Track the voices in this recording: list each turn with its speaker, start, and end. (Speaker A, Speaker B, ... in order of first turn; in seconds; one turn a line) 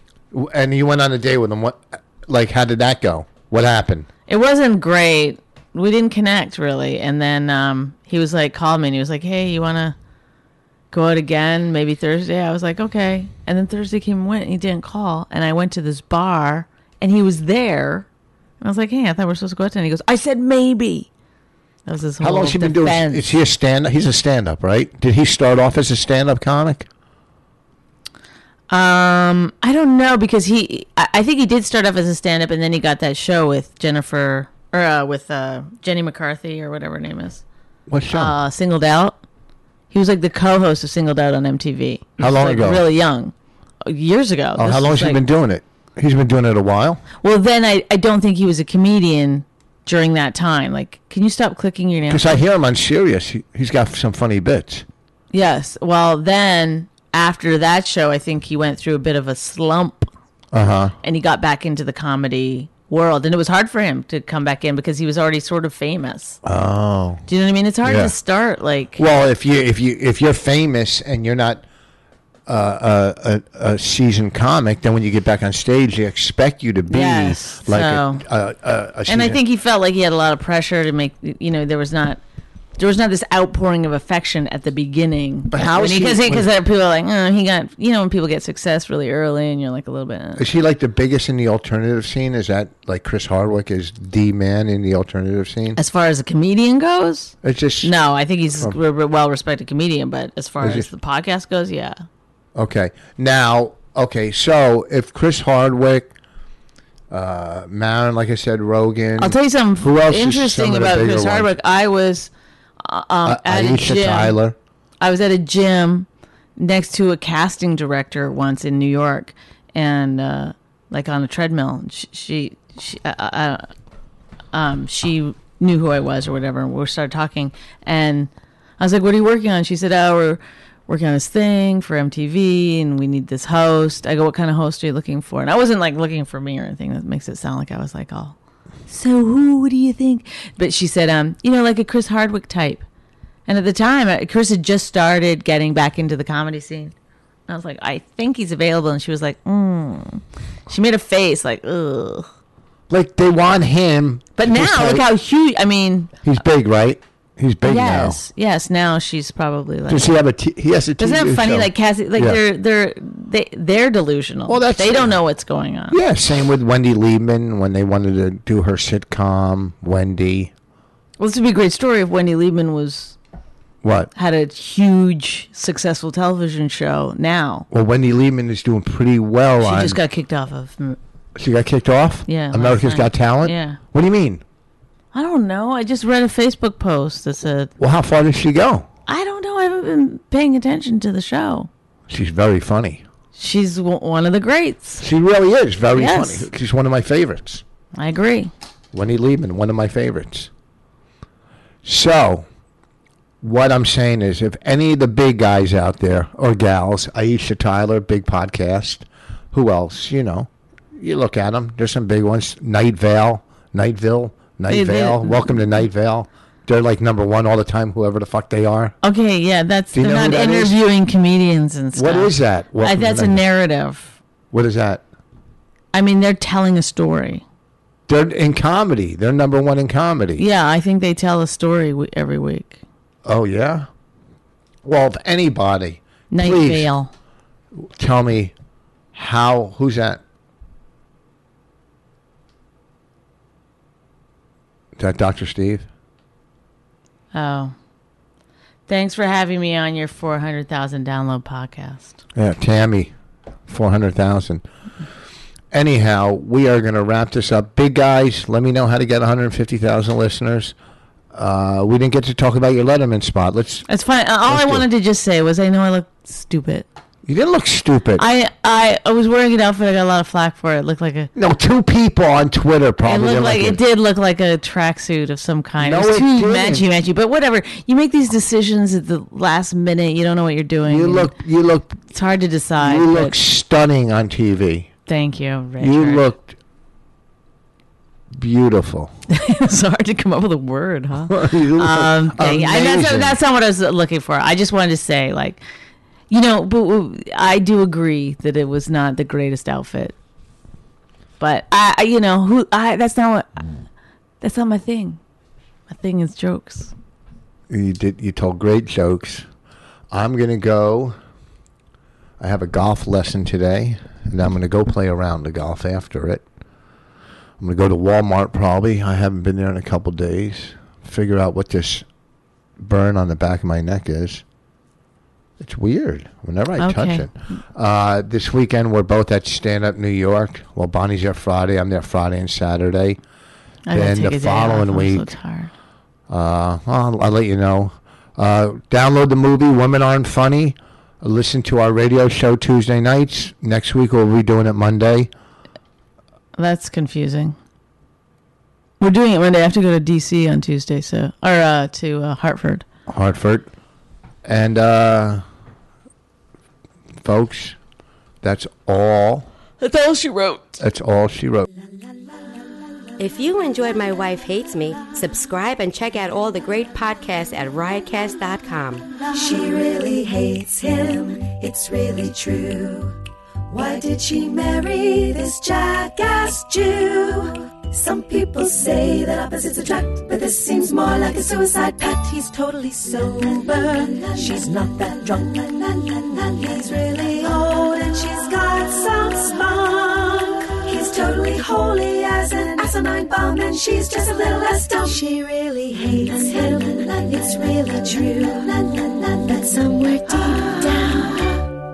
Speaker A: 0.3-4.1
Speaker B: 4.3-10.0
Speaker B: 10.9-18.1
Speaker B: 18.6-21.1
Speaker B: 21.9-23.3
Speaker A: 22.2-26.9
Speaker B: 28.7-37.4
Speaker A: 37.9-38.4
Speaker B: 38.1-39.2
Speaker B: 39.9-43.3
Speaker A: 42.2-42.9
Speaker B: 43.9-45.2
Speaker A: 44.6-47.0
Speaker B: 47.2-52.4
Speaker A: 52.1-54.9
Speaker B: 55.3-60.1
Speaker A: 60.5-61.0
Speaker B: 61.0-66.4
Speaker A: 66.4-67.2
Speaker B: 67.3-69.0
Speaker A: 67.8-68.1
Speaker A: 69.0-71.6
Speaker A: 72.5-79.4
Speaker B: 76.9-78.2
Speaker B: 79.1-82.2
Speaker B: 82.8-90.4
Speaker A: 85.5-86.5
Speaker A: 90.4-95.8
Speaker B: 95.8-102.0
Speaker A: 97.4-97.9
Speaker A: 100.6-100.9
Speaker A: 102.5-106.1
Speaker A: 107.1-111.5
Speaker B: 109.2-112.3
Speaker B: 112.8-114.4
Speaker A: 113.2-114.6
Speaker B: 115.0-116.1
Speaker B: 116.6-123.7
Speaker B: 124.5-138.4
Speaker B: 138.9-142.8
Speaker B: 143.5-146.9
Speaker B: 147.5-152.3
Speaker A: 152.9-155.1
Speaker B: 154.4-156.2
Speaker A: 156.2-158.2
Speaker B: 157.6-160.1
Speaker A: 159.9-162.4
Speaker B: 161.0-166.0
Speaker A: 164.5-165.2
Speaker A: 165.9-170.5
Speaker B: 171.2-173.2
Speaker A: 173.8-174.1
Speaker B: 174.2-177.7
Speaker A: 177.7-180.0
Speaker B: 179.6-181.0
Speaker A: 181.4-184.4
Speaker B: 182.3-183.8
Speaker B: 185.1-187.7
Speaker A: 187.8-188.9
Speaker B: 189.1-191.7
Speaker A: 192.1-193.0
Speaker B: 193.4-195.0
Speaker A: 195.0-197.6
Speaker B: 195.9-196.5
Speaker B: 198.0-198.5
Speaker A: 198.9-200.5
Speaker A: 201.8-202.4
Speaker A: 203.4-219.0
Speaker B: 214.7-215.6
Speaker B: 219.0-224.2
Speaker A: 219.9-220.8
Speaker A: 221.9-223.4
Speaker A: 224.5-225.0
Speaker B: 225.9-227.4
Speaker A: 228.1-230.4
Speaker B: 230.4-232.8
Speaker A: 233.2-233.9
Speaker A: 234.8-236.9
Speaker B: 236.3-237.1
Speaker A: 237.8-238.5
Speaker A: 239.1-240.2
Speaker A: 245.0-245.9
Speaker B: 247.3-247.7
Speaker B: 248.9-252.2
Speaker A: 252.3-253.1
Speaker A: 253.7-254.6
Speaker A: 255.7-260.8
Speaker A: 261.3-263.9
Speaker B: 263.9-266.9
Speaker A: 264.5-264.8
Speaker A: 267.3-268.3
Speaker B: 268.2-271.3
Speaker A: 271.4-273.8
Speaker B: 273.0-281.3
Speaker A: 275.8-276.9
Speaker A: 280.9-282.0
Speaker B: 282.1-283.4
Speaker A: 282.8-284.9
Speaker B: 285.1-286.3
Speaker A: 285.8-286.6
Speaker A: 288.3-289.1
Speaker B: 289.3-295.6
Speaker A: 291.3-293.4
Speaker B: 296.3-300.1
Speaker B: 301.4-303.7
Speaker B: 304.4-305.2
Speaker B: 305.9-306.9
Speaker A: 307.7-309.5
Speaker A: 310.1-311.2
Speaker A: 312.4-316.4
Speaker A: 317.6-322.1
Speaker A: 322.8-324.4
Speaker A: 325.6-333.2
Speaker B: 326.8-327.3
Speaker B: 333.9-335.7
Speaker A: 333.9-335.4
Speaker A: 336.3-345.3
Speaker B: 346.6-347.6
Speaker B: 349.0-352.9
Speaker A: 353.1-353.7
Speaker A: 354.4-355.4
Speaker A: 357.2-357.8
Speaker A: 358.4-359.5
Speaker B: 359.8-360.8
Speaker A: 360.8-361.7
Speaker C: 363.2-369.1
Speaker D: 369.3-373.2
Speaker D: 373.7-401.7